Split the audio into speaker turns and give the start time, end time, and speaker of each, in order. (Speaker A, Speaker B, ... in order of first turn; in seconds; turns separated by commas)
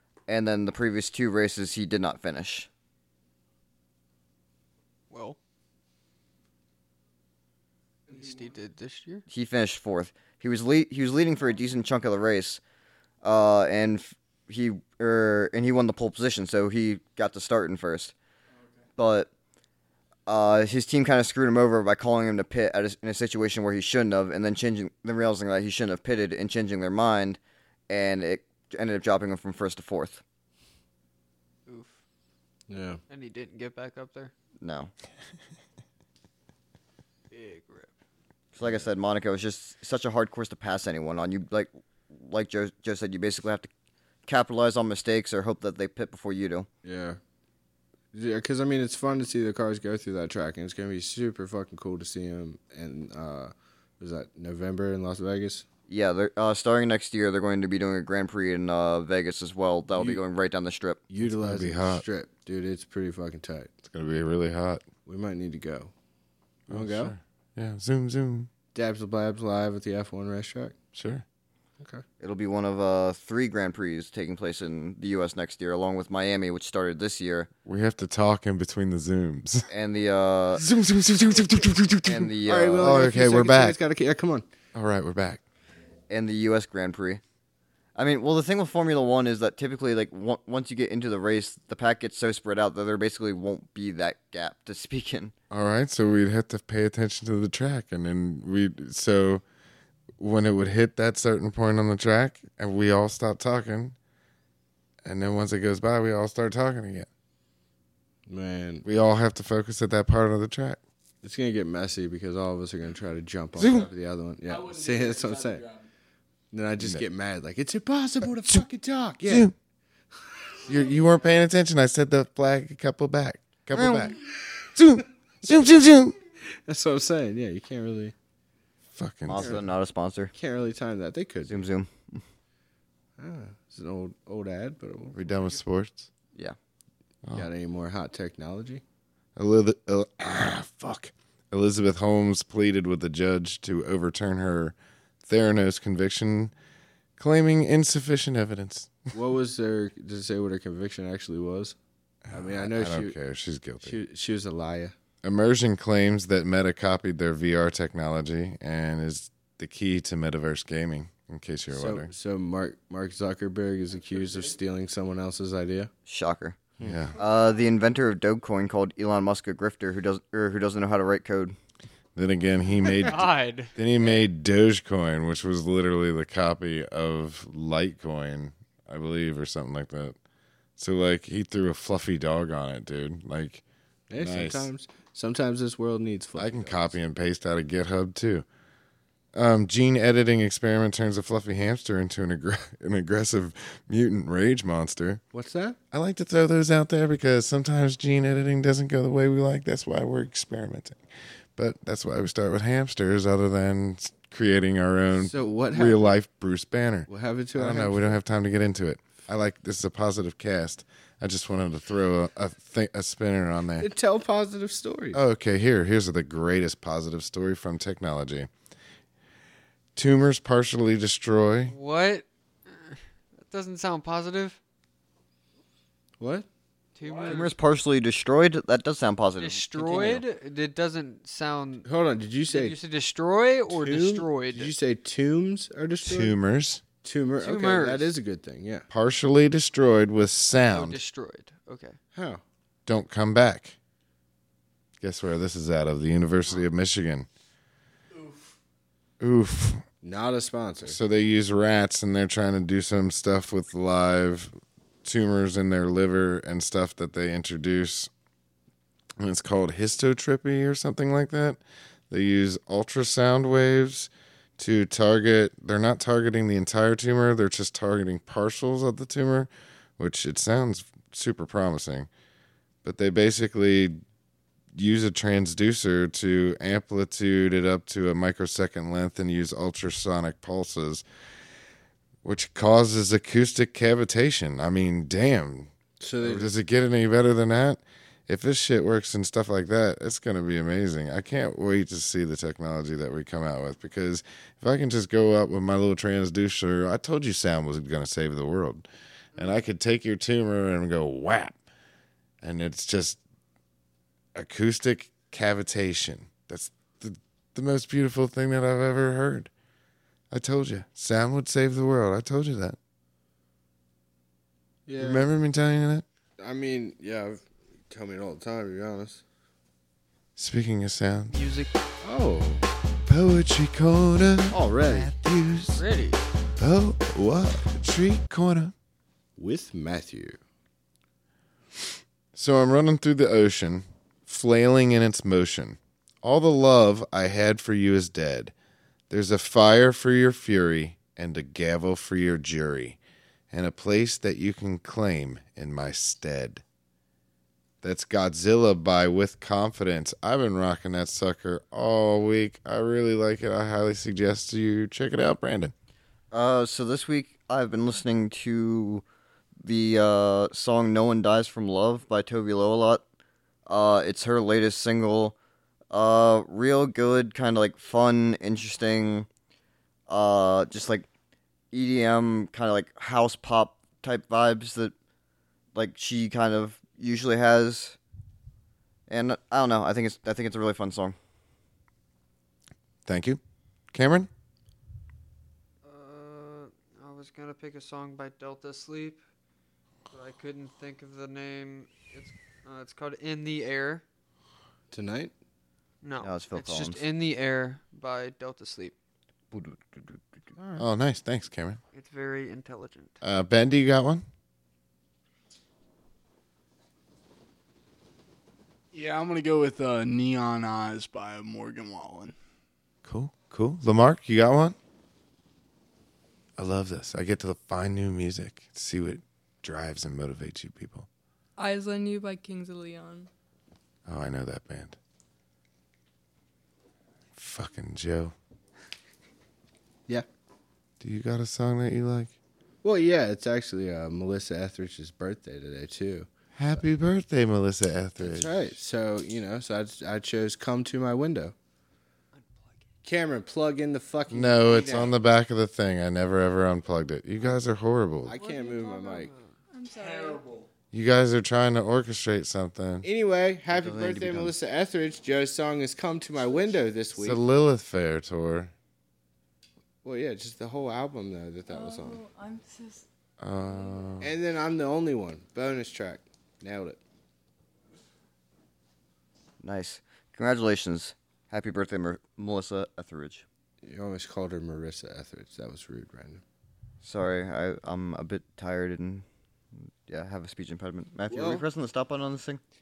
Speaker A: 0.3-2.7, Speaker B: 5.1-5.4, Speaker C: 8.1-8.6, Speaker B: 8.1-9.2, Speaker A: 9.3-12.6, Speaker A: 13.2-18.1, Speaker C: 18.5-18.9, Speaker A: 19.0-19.3, Speaker A: 20.3-27.4, Speaker A: 27.9-30.2, Speaker B: 31.7-32.0, Speaker D: 32.7-33.0, Speaker B: 33.1-34.3, Speaker A: 34.6-34.9, Speaker B: 37.3-37.9, Speaker A: 38.5-43.7, Speaker A: 44.3-46.7, Speaker D: 46.8-47.2, Speaker D: 48.1-55.6, Speaker A: 55.9-61.0, Speaker D: 59.9-60.2, Speaker D: 61.1-63.7, Speaker E: 61.2-62.1, Speaker E: 63.9-64.8, Speaker D: 65.1-65.9, Speaker E: 66.7-68.5, Speaker D: 66.7-67.1, Speaker D: 68.7-70.8, Speaker E: 70.9-71.2, Speaker A: 72.2-77.5, Speaker E: 77.7-79.7, Speaker A: 79.7-80.6, Speaker E: 80.6-83.8, Speaker A: 82.0-83.1, Speaker D: 82.5-84.5, Speaker E: 84.8-85.4, Speaker A: 86.1-87.2, Speaker A: 88.0-95.3, Speaker E: 95.5-99.4, Speaker E: 100.2-104.0, Speaker E: 105.1-107.1, Speaker D: 108.3-108.9, Speaker E: 108.8-110.8, Speaker D: 111.2-115.7, Speaker E: 113.6-113.9, Speaker C: 114.5-115.9, Speaker D: 116.5-119.5, Speaker E: 116.8-117.1, Speaker E: 119.2-119.5, Speaker E: 120.7-124.2, Speaker A: 123.7-124.1, Speaker E: 124.7-126.2, Speaker D: 126.7-128.1, Speaker E: 128.9-129.6, Speaker A: 129.3-130.3, Speaker D: 129.3-129.7, Speaker D: 130.3-131.7, Speaker A: 131.4-132.2, Speaker D: 133.2-135.3, Speaker E: 135.1-136.1, Speaker D: 137.4-138.8, Speaker E: 139.4-144.8, Speaker E: 145.3-146.5, Speaker E: 147.2-149.1, Speaker D: 149.1-151.8, Speaker E: 152.3-154.0, Speaker D: 152.3-153.2, Speaker D: 153.8-154.9, Speaker E: 155.2-162.1, Speaker D: 161.7-165.9, Speaker C: 164.0-164.6, Speaker A: 166.1-166.6, Speaker E: 166.8-167.2, Speaker A: 167.2-171.6, Speaker E: 172.2-180.2, Speaker B: 172.8-173.7, Speaker E: 180.8-183.6, Speaker D: 184.1-187.0, Speaker E: 184.2-184.7, Speaker E: 186.3-188.5, Speaker E: 189.3-195.2, Speaker D: 195.3-195.8, Speaker E: 195.9-201.0, Speaker E: 201.6-213.9, Speaker D: 205.2-206.2, Speaker D: 207.1-208.2, Speaker D: 213.8-215.2, Speaker E: 215.1-218.5, Speaker E: 220.0-221.8, Speaker B: 221.7-224.6, Speaker D: 226.2-226.5, Speaker B: 227.0-227.5, Speaker C: 227.0-227.5, Speaker A: 227.3-230.2, Speaker B: 229.4-231.9, Speaker D: 231.8-232.8, Speaker B: 232.5-234.8, Speaker D: 233.7-236.4, Speaker E: 236.0-236.8, Speaker D: 237.0-238.9, Speaker B: 237.4-238.1, Speaker E: 238.9-241.0, Speaker B: 240.7-242.0, Speaker D: 242.1-242.4, Speaker E: 242.9-243.8, Speaker E: 245.0-247.3, Speaker C: 248.1-248.6, Speaker E: 249.2-249.8, Speaker D: 250.0-251.0, Speaker E: 250.8-258.1, Speaker E: 259.2-261.6, Speaker E: 262.1-272.1, Speaker E: 272.8-274.0, Speaker E: 274.8-281.0, Speaker E: 282.2-285.7, Speaker D: 286.0-286.5, Speaker E: 286.2-301.6, Speaker E: 302.4-303.2, Speaker E: 304.4-309.5, Speaker E: 310.3-312.8, Speaker D: 314.9-315.3, Speaker E: 315.0-316.1, Speaker D: 316.4-319.2, Speaker E: 320.4-321.4, Speaker B: 321.3-321.7, Speaker D: 322.0-322.7, Speaker E: 323.1-325.8, Speaker D: 324.5-325.1, Speaker B: 325.7-326.2, Speaker E: 326.6-328.7, Speaker D: 329.4-330.4, Speaker E: 332.3-338.5, Speaker E: 339.1-343.0, Speaker E: 343.5-346.6, Speaker E: 347.8-355.7, Speaker A: 356.3-359.0, Speaker A: 359.6-363.0, Speaker A: 363.7-365.4, Speaker A: 365.9-369.3, Speaker A: 370.1-371.1, Speaker A: 371.7-374.9, Speaker A: 375.8-378.0, Speaker A: 379.1-381.2, Speaker E: 383.1-383.4, Speaker E: 383.9-384.3, Speaker B: 385.8-389.2, Speaker B: 390.1-394.0, Speaker D: 394.9-395.3, Speaker B: 396.0-398.9, Speaker A: 396.2-397.0, Speaker A: 399.5-400.6, Speaker E: 400.8-401.8, Speaker B: 401.9-403.2, Speaker E: 403.2-404.3, Speaker C: 408.9-412.4, Speaker E: 413.1-414.8, Speaker E: 416.6-421.1, Speaker F: 421.6-423.3, Speaker E: 424.1-425.0, Speaker E: 427.4-428.3, Speaker E: 431.0-432.3, Speaker D: 432.8-436.8, Speaker E: 436.6-438.6, Speaker D: 438.2-441.5, Speaker B: 442.4-442.8, Speaker D: 443.0-445.1, Speaker E: 444.3-448.4, Speaker D: 448.2-449.3, Speaker F: 448.3-450.4, Speaker C: 449.9-450.7, Speaker E: 450.9-453.1, Speaker D: 453.0-457.4, Speaker A: 453.7-454.6, Speaker E: 457.2-458.7, Speaker D: 460.0-462.2, Speaker F: 461.7-463.1, Speaker E: 463.4-464.3, Speaker F: 463.8-464.1, Speaker D: 464.2-467.0, Speaker A: 469.6-473.4, Speaker D: 473.8-476.4, Speaker A: 477.0-479.3, Speaker A: 480.1-482.6, Speaker D: 481.3-481.6